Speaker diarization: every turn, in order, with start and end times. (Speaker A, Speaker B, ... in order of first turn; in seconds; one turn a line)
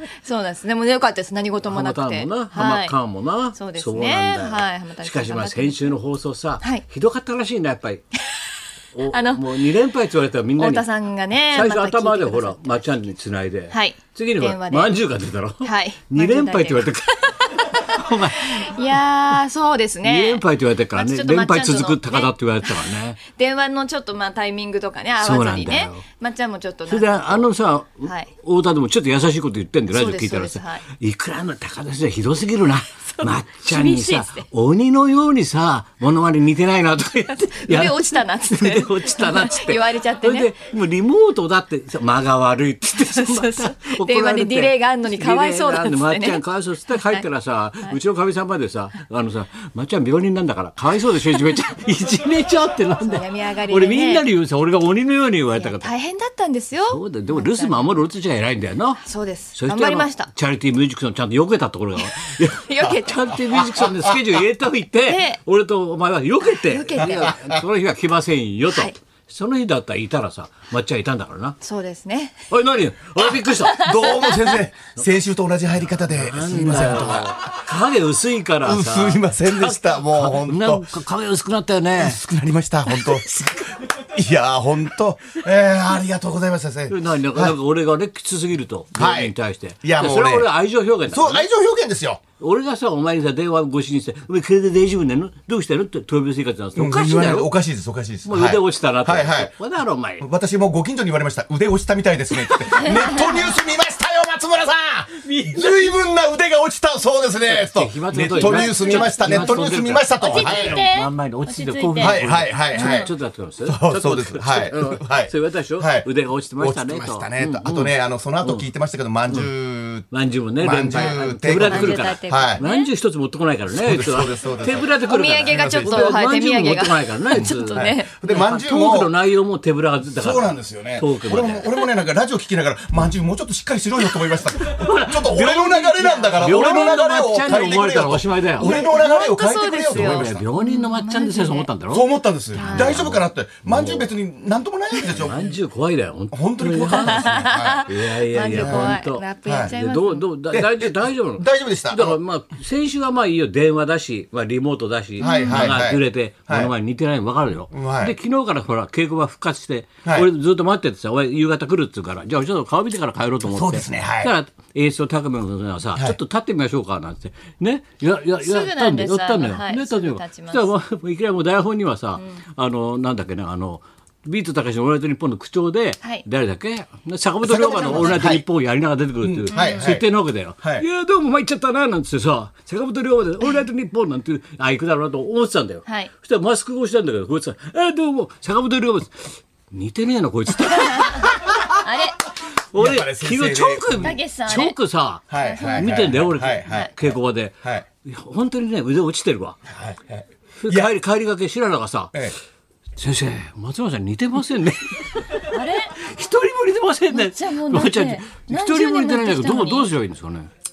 Speaker A: 0.2-3.0
Speaker B: 1.6-8.0
Speaker A: 3.5-5.9
Speaker B: 8.9-10.8
Speaker A: 9.1-9.6
Speaker A: 10.6-13.0
Speaker B: 11.5-19.0
Speaker A: 13.7-15.0
Speaker A: 15.6-27.4
Speaker B: 20.0-23.2
Speaker B: 25.2-26.0
Speaker B: 26.9-55.9
Speaker A: 28.0-28.3
Speaker A: 29.9-30.8
Speaker A: 33.1-34.5
Speaker A: 37.5-40.5
Speaker A: 42.9-47.2
Speaker A: 53.0-54.2
Speaker A: 55.5-57.9
Speaker B: 56.9-59.0
Speaker A: 59.0-60.3
Speaker B: 59.5-71.6
Speaker A: 62.0-63.6
Speaker C: 63.7-64.1
Speaker A: 65.0-65.4
Speaker A: 66.6-67.4
Speaker C: 67.0-67.6
Speaker A: 68.7-68.9
Speaker A: 71.6-72.4
Speaker B: 72.5-73.8
Speaker A: 73.5-74.6
Speaker C: 73.7-77.3
Speaker B: 75.8-82.2
Speaker C: 78.6-80.9
Speaker C: 82.0-87.5
Speaker B: 82.9-83.8
Speaker B: 86.9-91.5
Speaker C: 89.0-90.5
Speaker C: 91.1-92.2
Speaker B: 92.4-97.5
Speaker C: 96.8-99.5
Speaker B: 98.2-100.2
Speaker C: 100.2-110.8
Speaker B: 102.4-103.4
Speaker A: 102.8-103.2
Speaker B: 105.2-105.9
Speaker B: 107.4-118.7
Speaker A: 108.4-112.2
Speaker C: 112.0-113.1
Speaker A: 112.7-113.1
Speaker C: 113.6-122.6
Speaker B: 120.1-131.7
Speaker A: 121.7-122.9
Speaker C: 123.7-124.9
Speaker A: 125.0-128.1
Speaker C: 125.4-126.1
Speaker C: 127.7-129.1
Speaker C: 130.1-140.4
Speaker B: 134.6-138.7
Speaker A: 136.0-136.7
Speaker A: 138.6-141.7
Speaker B: 139.9-144.1
Speaker C: 141.9-145.5
Speaker A: 142.5-143.0
Speaker B: 145.1-191.8
Speaker C: 146.3-147.9
Speaker A: 147.0-150.2
Speaker C: 148.5-149.7
Speaker C: 150.5-152.2
Speaker A: 155.2-155.7
Speaker C: 155.2-156.7
Speaker C: 157.7-158.2
Speaker C: 163.5-164.3
Speaker A: 168.4-170.7
Speaker C: 177.4-178.4
Speaker A: 177.7-178.2
Speaker C: 179.2-180.1
Speaker A: 179.5-179.9
Speaker A: 185.8-186.1
Speaker A: 190.8-192.2
Speaker B: 192.7-199.6
Speaker C: 192.7-194.2
Speaker A: 194.0-194.8
Speaker C: 195.3-197.8
Speaker A: 195.3-195.9
Speaker A: 196.6-196.9
Speaker C: 199.7-200.9
Speaker B: 200.6-202.1
Speaker B: 203.0-210.5
Speaker A: 205.5-205.9
Speaker A: 207.1-209.9